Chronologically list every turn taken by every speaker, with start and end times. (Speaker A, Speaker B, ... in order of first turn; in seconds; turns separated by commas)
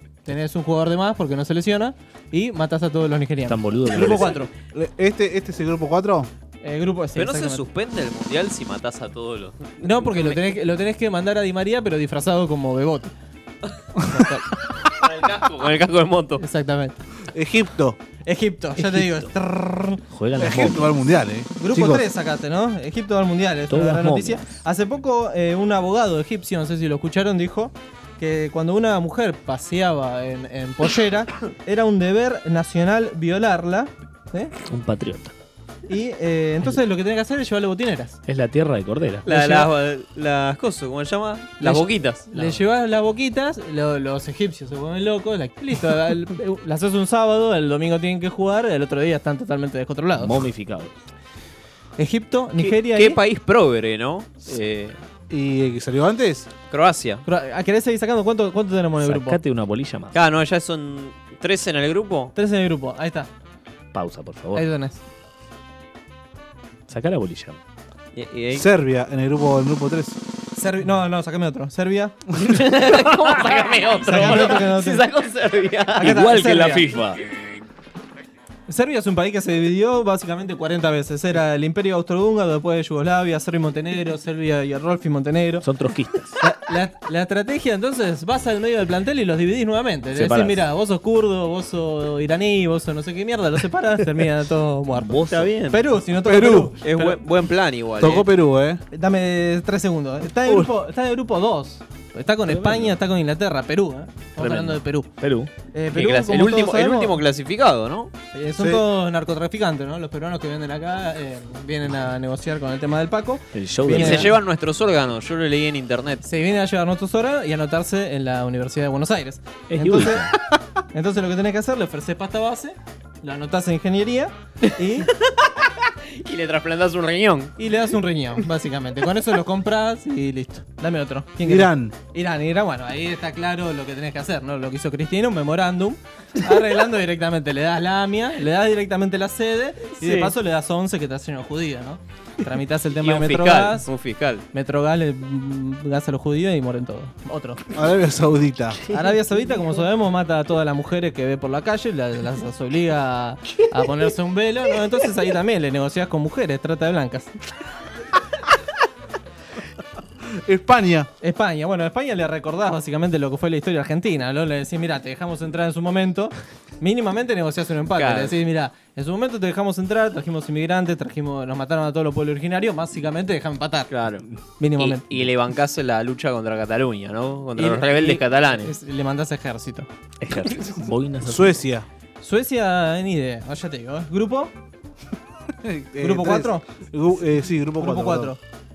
Speaker A: 0.3-4.5, Speaker B: 3.5-4.4, Speaker C: 3.9-6.3, Speaker A: 6.6-7.6, Speaker D: 7.2-10.6, Speaker A: 9.8-13.1, Speaker A: 14.1-14.4, Speaker D: 14.9-16.4, Speaker A: 16.4-17.0, Speaker C: 17.3-18.0, Speaker A: 18.3-20.0, Speaker B: 18.9-19.3, Speaker B: 20.1-21.0, Speaker C: 20.4-22.1, Speaker A: 21.6-34.5, Speaker B: 23.7-24.5, Speaker B: 34.7-35.3, Speaker A: 35.9-38.2, Speaker B: 38.3-39.3, Speaker A: 39.2-39.7, Speaker D: 39.3-42.5, Speaker A: 41.6-50.4, Speaker B: 50.2-51.1, Speaker A: 52.0-53.2, Speaker D: 52.6-55.0, Speaker C: 55.3-56.5, Speaker D: 56.7-57.2, Speaker A: 57.2-59.4, Speaker B: 59.0-60.2, Speaker D: 60.1-62.3, Speaker A: 62.4-63.3, Speaker B: 63.9-64.7, Speaker A: 64.5-65.0, Speaker B: 66.9-67.6, Speaker D: 68.1-68.7, Speaker C: 68.5-70.2, Speaker A: 70.5-72.2, Speaker D: 72.4-76.2, Speaker B: 73.3-73.7, Speaker A: 74.0-75.0, Speaker A: 76.0-76.9, Speaker B: 76.0-77.2, Speaker A: 78.7-85.7, Speaker B: 85.6-86.4, Speaker A: 86.4-97.2, Speaker B: 90.1-90.6, Speaker B: 94.9-95.5, Speaker D: 95.3-95.8, Speaker C: 96.2-96.8, Speaker D: 96.8-98.3, Speaker C: 98.0-98.8, Speaker A: 98.9-105.1, Speaker C: 100.4-100.7, Speaker B: 102.5-103.0, Speaker B: 104.4-105.5, Speaker A: 105.7-107.2, Speaker D: 105.9-108.1, Speaker A: 108.3-114.3, Speaker C: 108.6-108.8, Speaker B: 113.5-114.4, Speaker D: 113.9-116.2, Speaker A: 116.2-120.3, Speaker B: 119.7-120.3, Speaker A: 120.9-125.1, Speaker D: 124.7-127.6, Speaker A: 127.6-143.9, Speaker C: 131.4-131.9, Speaker D: 140.0-140.3, Speaker D: 143.0-144.4, Speaker A: 144.5-147.6, Speaker C: 147.7-148.8, Speaker A: 148.9-157.3, Speaker C: 160.4-161.1, Speaker A: 161.2-173.9, Speaker D: 168.0-168.4, Speaker D: 173.9-174.2, Speaker A: 174.6-175.1, Speaker D: 174.8-178.7, Speaker A: 177.6-179.9, Speaker B: 180.2-181.6, Speaker C: 181.2-181.9, Speaker A: 182.2-184.5, Speaker C: 185.6-188.3, Speaker A: 186.0-186.7, Speaker A: 187.8-188.4